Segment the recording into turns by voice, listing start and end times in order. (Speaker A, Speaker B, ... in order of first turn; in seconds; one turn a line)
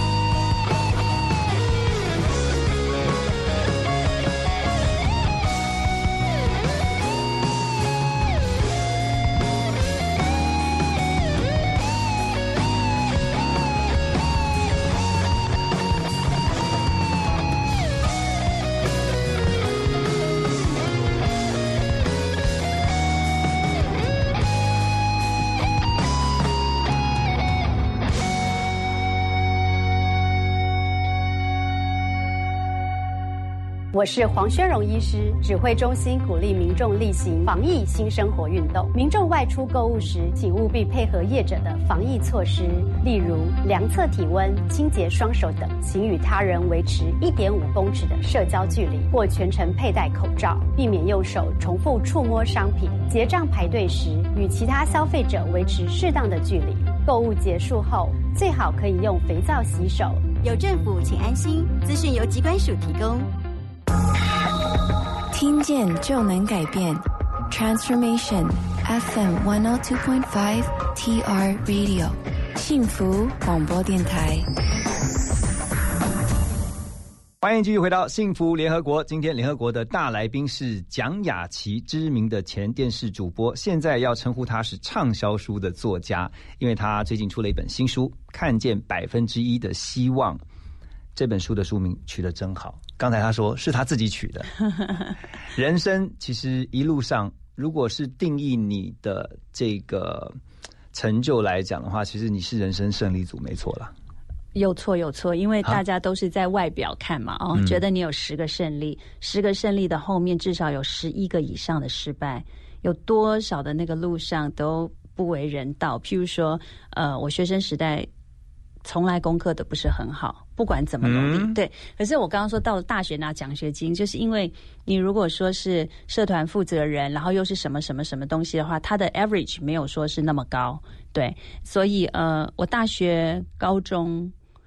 Speaker A: 33.9-60.3
Speaker B: 60.4-63.3
Speaker C: 65.3-74.5
Speaker D: 77.4-90.4
Speaker D: 91.2-94.5
Speaker D: 95.5-100.4
Speaker D: 100.9-103.9
Speaker E: 104.5-118.1
Speaker D: 107.5-107.8
Speaker E: 118.8-134.3
Speaker D: 121.0-121.6